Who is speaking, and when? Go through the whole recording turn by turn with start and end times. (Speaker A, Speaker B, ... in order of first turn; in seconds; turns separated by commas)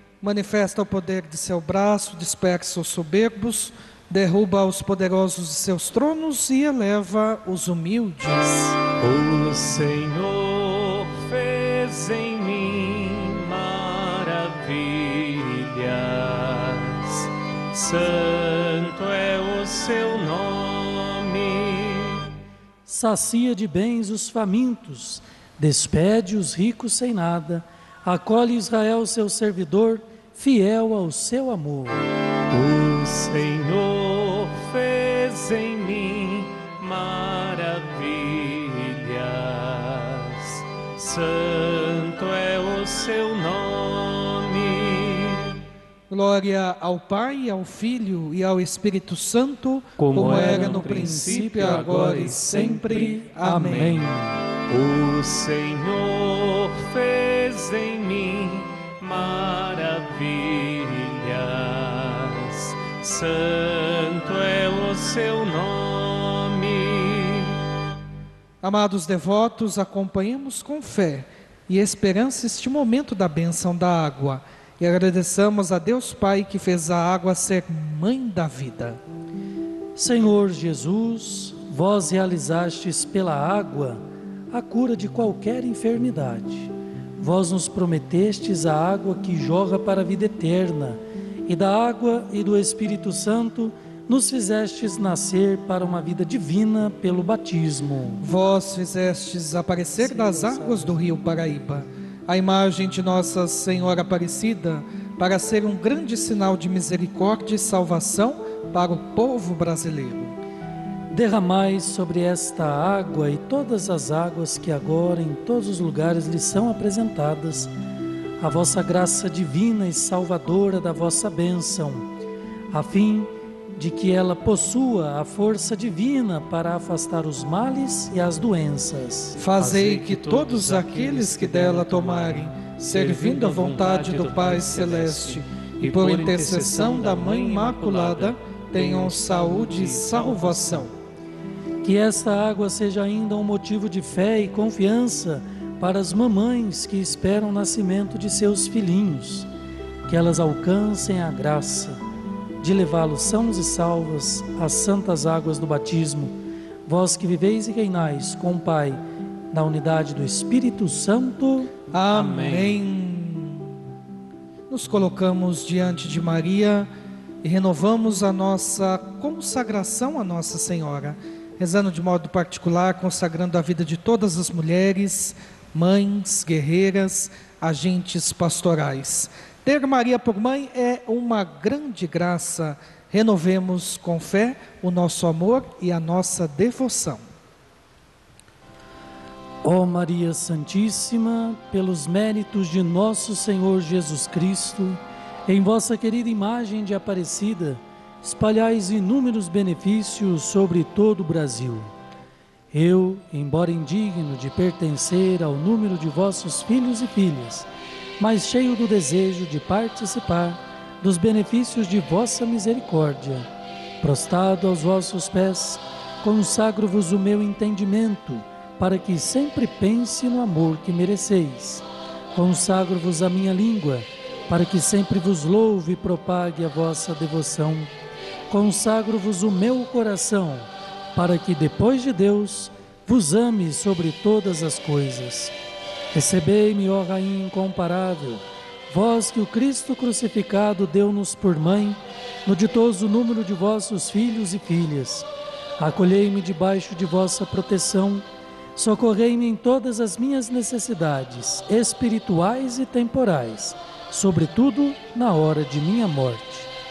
Speaker A: 0.2-8.8, Speaker B: 9.0-22.3, Speaker C: 22.9-32.1, Speaker B: 32.5-45.6, Speaker A: 46.1-54.0, Speaker B: 50.0-53.1, Speaker C: 50.1-54.4, Speaker B: 54.7-67.6, Speaker A: 68.6-79.0, Speaker C: 80.0-98.2, Speaker A: 98.2-110.4, Speaker C: 100.0-101.1, Speaker C: 111.1-117.7, Speaker C: 118.4-122.1, Speaker C: 122.7-129.4, Speaker A: 129.4-140.9, Speaker B: 129.6-140.9, Speaker C: 141.8-149.5, Speaker C: 150.1-152.0, Speaker C: 152.6-156.3, Speaker C: 156.9-159.0, Speaker C: 159.5-161.7, Speaker A: 161.9-163.7, Speaker B: 162.1-162.8, Speaker A: 164.7-166.9, Speaker A: 167.4-187.2, Speaker C: 189.6-201.9, Speaker C: 202.7-207.7, Speaker C: 208.2-213.5, Speaker C: 214.0-227.9, Speaker C: 228.5-235.6, Speaker C: 236.1-245.3, Speaker C: 245.8-248.2, Speaker C: 248.8-256.7